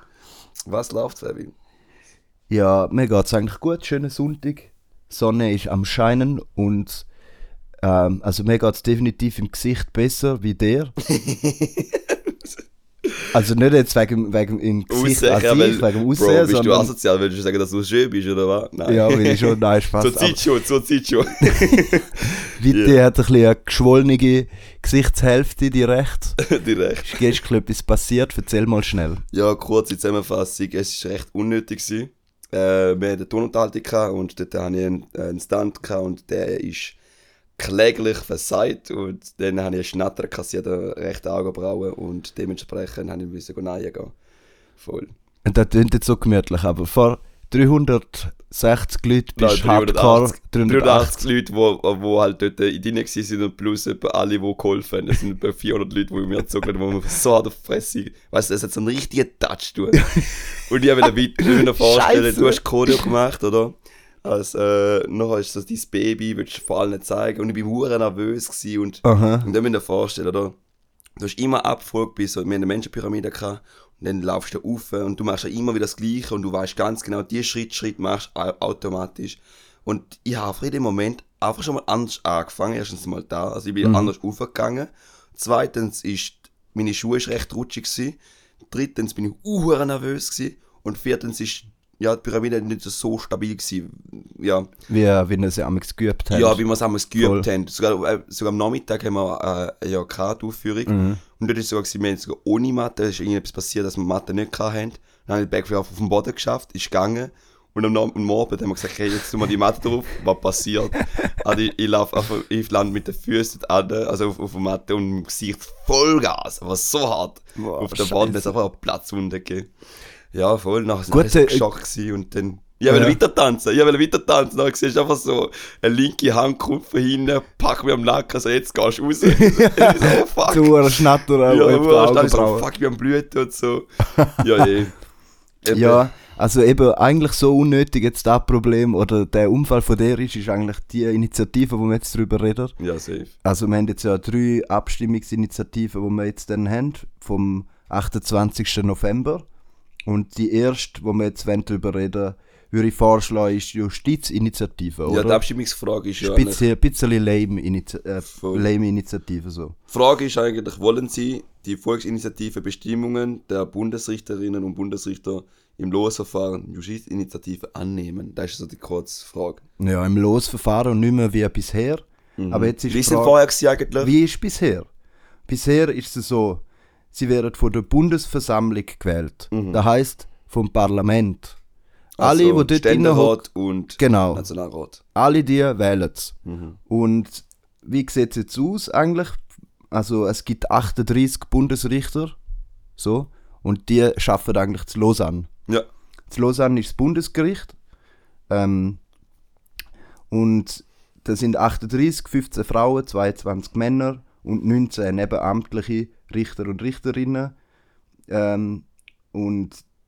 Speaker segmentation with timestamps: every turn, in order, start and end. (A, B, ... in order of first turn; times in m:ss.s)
0:00.7-0:01.5 A
0:02.5-0:07.1 B
0:07.8-0:10.9 B
0:11.1-0:12.0 A
0:13.3-0:16.9 B
0:14.9-0:22.9 A
0:18.8-0:20.4 B
0:22.5-0:26.4 B
0:26.4-0:27.2 A
0:27.0-0:29.2 B
0:29.3-0:37.0 A
0:37.6-0:44.1 A
0:44.8-0:45.1 A
0:45.4-0:51.2 B
0:49.4-1:10.5 A
1:00.1-1:00.4 B
1:01.0-1:03.1 B
1:09.0-1:09.5 B
1:11.2-1:28.2 A
1:23.8-1:24.1 B
1:28.7-1:34.7 A
1:34.9-1:36.6 B
1:36.3-1:59.7 A
1:37.2-1:37.5 B
1:40.9-1:41.2 B
1:57.6-1:58.5 B
2:00.3-2:15.0 A
2:01.1-2:01.7 B
2:02.9-2:03.2 B
2:09.3-2:12.7 B
2:15.6-2:16.1 A
2:15.7-2:22.7 B
2:22.8-2:23.3 A
2:23.4-2:29.4 B
2:30.0-2:35.4 B
2:35.1-2:36.6 A
2:36.2-2:39.7 B
2:38.3-2:38.6 A
2:39.9-2:49.6 A
2:49.8-2:53.4 B
2:52.4-2:54.1 A
2:54.0-2:54.9 B
2:55.5-3:01.6 B
2:59.5-2:59.8 A
3:02.2-3:05.0 A
3:02.2-3:03.4 B
3:04.0-3:04.4 B
3:05.1-3:06.3 B
3:06.4-3:06.8 A
3:06.9-3:12.4 B
3:13.0-3:15.5 B
3:16.3-3:17.7 B
3:18.5-3:19.0 B
3:20.3-3:27.5 B
3:28.3-3:29.8 B